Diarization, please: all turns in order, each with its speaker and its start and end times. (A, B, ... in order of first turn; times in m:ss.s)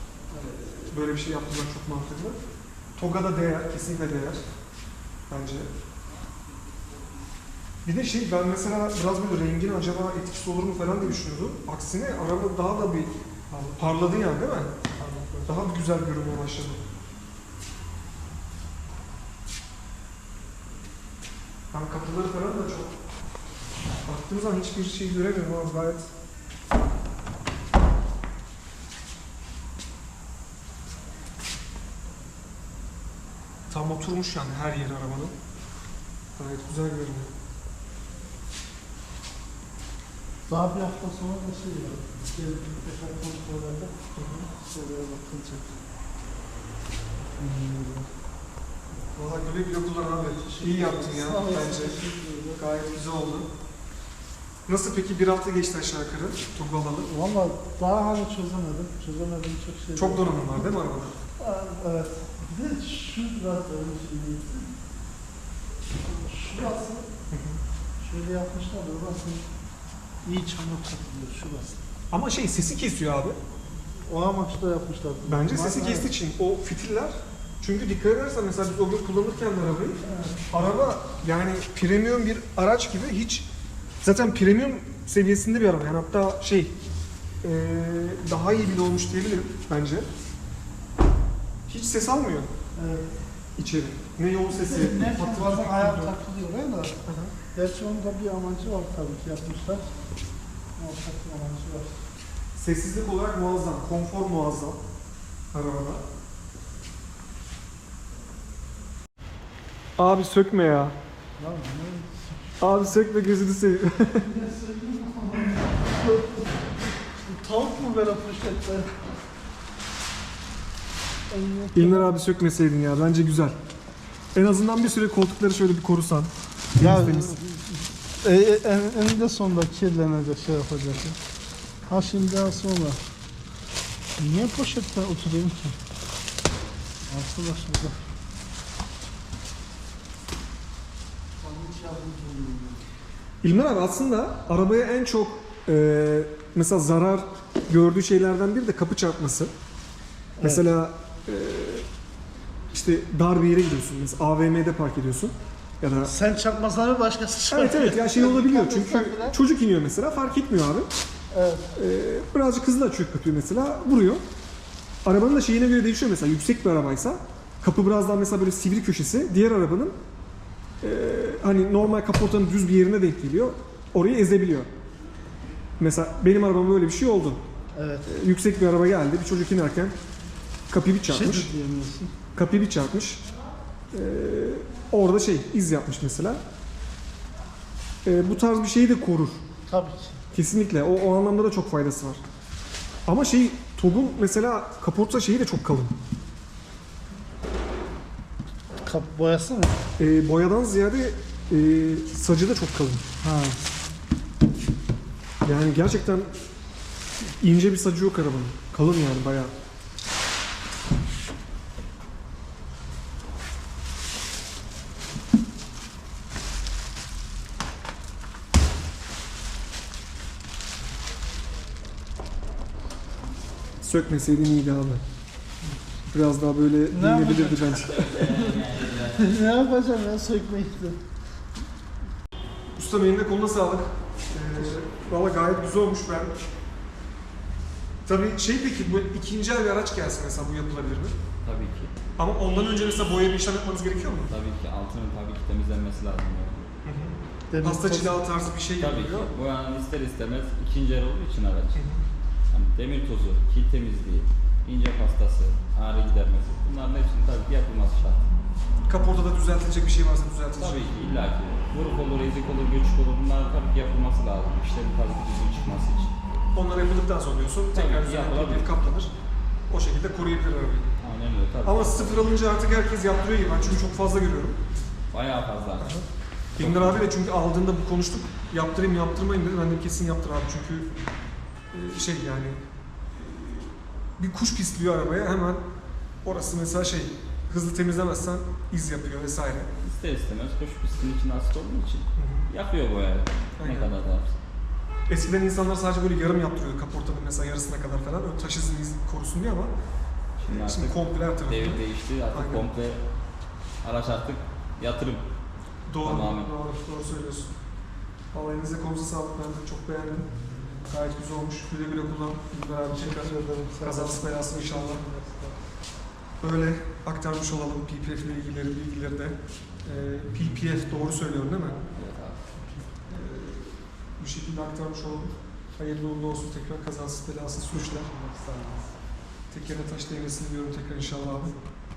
0:00.4-0:02.4 A
0:03.0-0:04.4 A
0:05.3-0:05.7 A
0:07.8-0:14.8 A
0:15.3-0:16.8 A
0:21.7-0:23.0 A
0:24.1-0:26.1 A
0:33.7-0:35.4 A
0:36.4-0:37.3 A
0:40.5-0:43.9 B
0:44.2-0:44.5 A
0:44.6-0:45.8 B
0:47.4-0:48.1 B
0:49.1-0:52.0 A
0:50.4-0:52.6 B
0:52.6-0:53.5 A
0:54.7-0:57.1 A
0:57.0-1:00.4 B
1:00.0-1:01.2 A
1:01.4-1:04.7 B
1:06.0-1:07.1 B
1:07.3-1:07.6 A
1:08.0-1:09.5 B
1:10.2-1:11.8 B
1:12.1-1:13.4 A
1:14.1-1:16.1 B
1:15.3-1:23.5 A
1:24.0-1:26.7 A
1:27.4-1:30.1 A
1:31.7-1:32.5 A
1:32.8-1:33.1 B
1:33.6-1:36.1 A
1:34.5-1:37.0 B
1:37.1-1:37.4 A
1:37.5-1:39.9 B
1:40.8-1:42.0 B
1:42.6-1:44.8 A
1:45.5-1:46.0 A
1:50.0-1:51.0 A
1:51.4-1:52.6 B
1:52.6-1:54.3 A
1:54.2-1:56.7 B
1:57.2-1:59.0 B
2:01.3-2:02.1 B
2:01.8-2:03.6 A
2:04.4-2:07.4 A
2:06.8-2:11.2 B
2:11.9-2:13.0 B
2:14.2-2:15.8 B
2:17.0-2:18.0 B
2:21.4-2:22.9 B
2:23.4-2:29.5 A
2:30.4-2:30.7 B
2:30.4-2:31.9 A
2:32.7-2:36.2 A
2:36.0-2:39.4 B
2:37.5-2:40.9 A
2:41.3-2:41.7 B
2:41.7-2:44.2 A
2:45.0-2:50.0 A
2:50.8-2:54.7 A
2:55.8-2:57.4 A
2:57.7-2:58.1 B
2:58.1-3:00.0 A
3:00.7-3:01.5 A
3:01.1-3:02.1 B
3:02.4-3:03.2 A
3:03.9-3:06.4 A
3:08.0-3:09.4 A
3:09.7-3:10.2 B
3:10.3-3:12.2 A
3:13.1-3:15.9 A
3:18.8-3:19.8 B
3:20.0-3:23.0 A
3:23.2-3:23.6 B
3:25.4-3:26.3 A
3:27.4-3:29.5 A
3:43.8-3:45.0 A
3:46.1-3:48.2 A
3:46.9-3:51.0 B
3:47.9-3:49.3 C
3:52.8-3:56.4 A
3:58.1-4:01.2 A
4:01.4-4:01.9 C
4:02.2-4:04.3 A
4:04.3-4:06.7 C
4:06.8-4:09.3 A
4:07.5-4:08.2 B
4:08.8-4:11.8 C
4:11.8-4:12.0 A
4:12.5-4:18.3 C
4:18.9-4:20.9 A
4:20.6-4:26.1 C
4:26.5-4:29.1 A
4:27.7-4:28.8 C
4:29.7-4:30.9 A
4:31.0-4:32.3 C
4:31.6-4:34.6 A
4:35.1-4:35.9 C
4:35.8-4:36.0 A
4:36.6-4:40.9 A
4:36.6-4:37.1 C
4:41.7-4:42.6 A
4:43.1-4:45.6 A
4:46.2-4:49.7 A
4:49.7-4:54.4 C
4:52.2-4:52.5 A
4:53.6-4:53.9 A
4:55.1-4:59.7 A
5:00.4-5:03.0 C
5:00.5-5:02.7 A
5:03.8-5:05.2 C
5:05.9-5:07.5 A
5:06.0-5:06.5 C
5:08.3-5:10.3 A
5:10.9-5:15.0 A
5:12.9-5:15.6 B
5:16.4-5:21.8 A
5:21.9-5:22.4 C
5:23.1-5:28.1 A
5:27.7-5:28.9 B
5:29.5-5:31.6 A